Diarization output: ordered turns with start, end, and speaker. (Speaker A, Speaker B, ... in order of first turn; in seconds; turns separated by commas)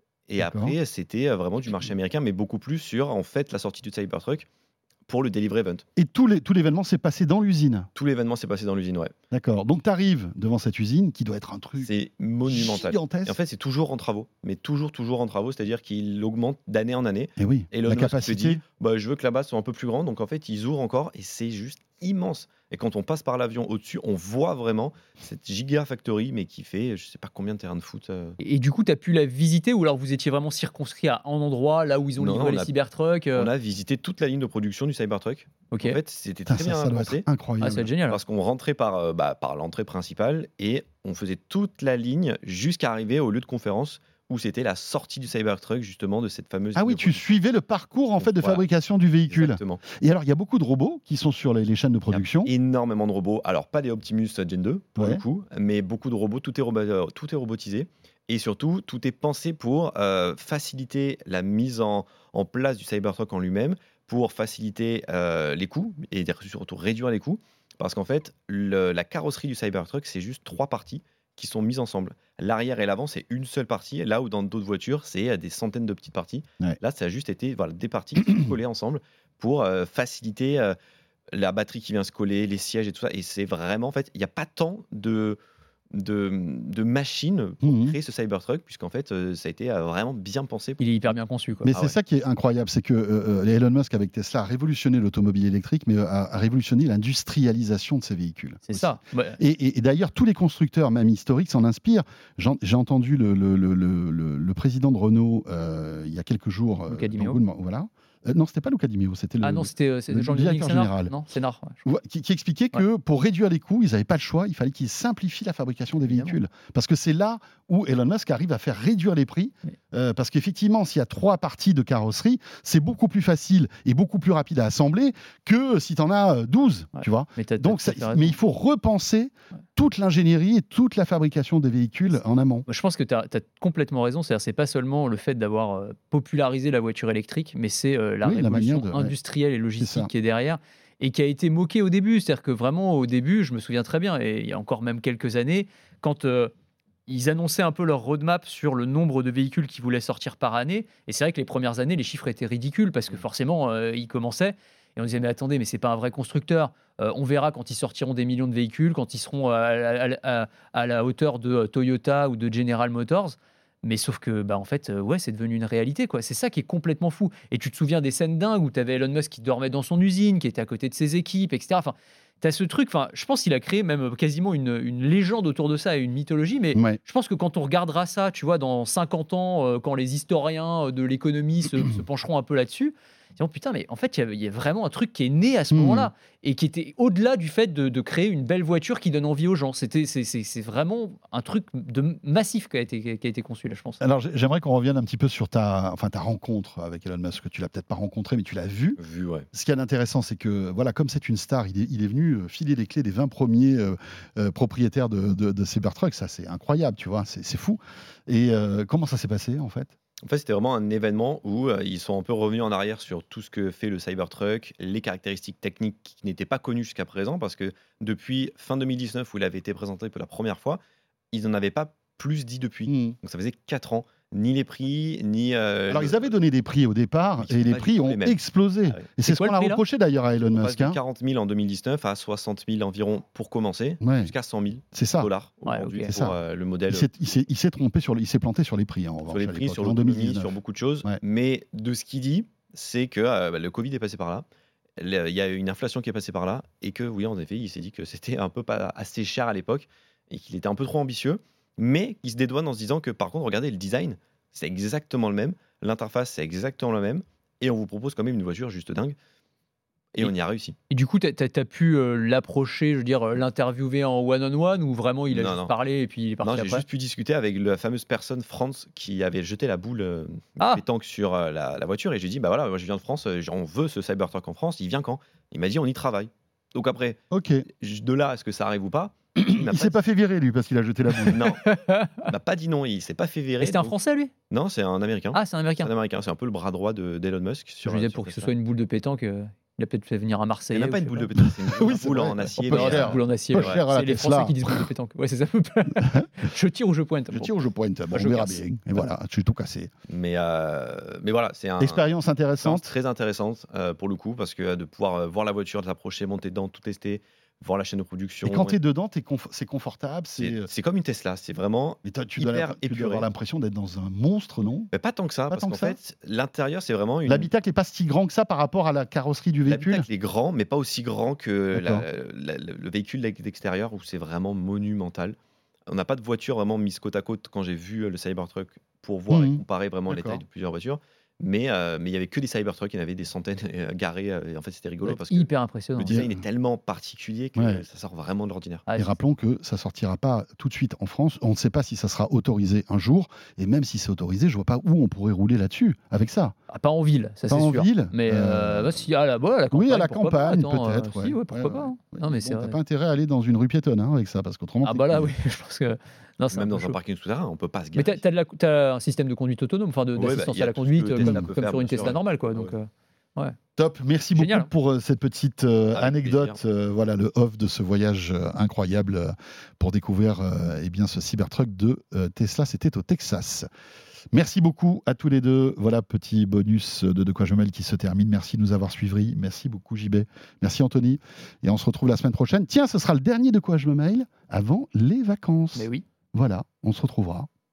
Speaker A: 0.3-4.5, Speaker B: 0.4-0.8, Speaker A: 5.1-5.8, Speaker B: 6.0-7.9, Speaker A: 7.9-9.1, Speaker B: 9.3-11.9, Speaker A: 11.8-28.4, Speaker B: 12.4-13.4, Speaker B: 17.4-18.6, Speaker C: 28.4-33.5, Speaker A: 32.2-32.7, Speaker A: 33.3-37.3, Speaker C: 35.7-36.0, Speaker B: 36.5-37.9, Speaker C: 37.6-38.2, Speaker A: 38.1-47.3, Speaker B: 46.7-52.5, Speaker A: 48.2-48.6, Speaker A: 49.3-49.8, Speaker A: 52.1-80.8, Speaker B: 55.0-55.2, Speaker A: 81.3-85.4, Speaker A: 85.9-90.8, Speaker B: 87.6-88.0, Speaker C: 90.8-91.7, Speaker B: 91.6-111.1, Speaker C: 98.7-99.4, Speaker C: 106.9-107.4, Speaker C: 109.4-111.8, Speaker B: 111.8-132.7, Speaker C: 116.0-116.4, Speaker C: 127.0-128.4, Speaker C: 132.7-146.5, Speaker B: 138.2-139.2, Speaker B: 139.8-140.1, Speaker C: 147.1-194.0, Speaker B: 176.7-177.0, Speaker B: 185.7-186.1, Speaker B: 194.0-199.0, Speaker A: 199.0-199.5, Speaker B: 199.5-209.9, Speaker A: 210.2-220.8, Speaker A: 221.3-226.3, Speaker B: 222.9-223.2, Speaker B: 225.9-231.0, Speaker A: 227.4-229.0, Speaker C: 229.2-229.8, Speaker A: 230.5-237.1, Speaker B: 234.0-234.3, Speaker B: 234.9-235.3, Speaker C: 235.7-236.1, Speaker B: 236.1-236.4, Speaker B: 236.9-241.2, Speaker A: 239.2-244.4, Speaker A: 245.0-259.1, Speaker A: 260.1-260.8, Speaker C: 260.9-266.8, Speaker A: 265.3-265.7, Speaker A: 266.4-277.2, Speaker B: 277.3-277.6, Speaker A: 277.7-280.0, Speaker B: 279.4-281.4, Speaker C: 281.1-282.2, Speaker A: 281.3-281.6, Speaker A: 282.2-283.9, Speaker C: 283.6-284.3, Speaker A: 284.5-288.5, Speaker C: 285.3-285.9, Speaker C: 287.8-291.3, Speaker A: 290.7-293.8, Speaker B: 291.3-294.9, Speaker C: 292.7-297.6, Speaker B: 297.3-299.9, Speaker C: 298.1-298.6, Speaker A: 300.1-302.1, Speaker B: 301.8-302.9, Speaker A: 302.6-308.8, Speaker B: 308.4-310.7, Speaker A: 310.4-313.3, Speaker B: 312.0-314.9, Speaker A: 314.9-317.5, Speaker B: 315.5-316.0, Speaker B: 317.2-320.1, Speaker A: 319.7-325.4, Speaker B: 321.7-322.0, Speaker A: 325.9-338.8, Speaker B: 329.3-330.4, Speaker C: 335.0-336.2, Speaker B: 336.1-336.4, Speaker B: 337.6-337.8, Speaker C: 338.9-339.2, Speaker B: 339.0-346.5, Speaker C: 346.7-352.8, Speaker B: 347.5-349.1, Speaker B: 349.7-355.3, Speaker C: 354.8-357.0, Speaker A: 356.5-358.2, Speaker C: 357.9-363.6, Speaker A: 360.1-362.7, Speaker B: 361.2-361.5, Speaker B: 363.8-373.7, Speaker C: 364.3-364.7, Speaker A: 365.9-366.6, Speaker B: 374.3-387.5, Speaker C: 385.7-386.1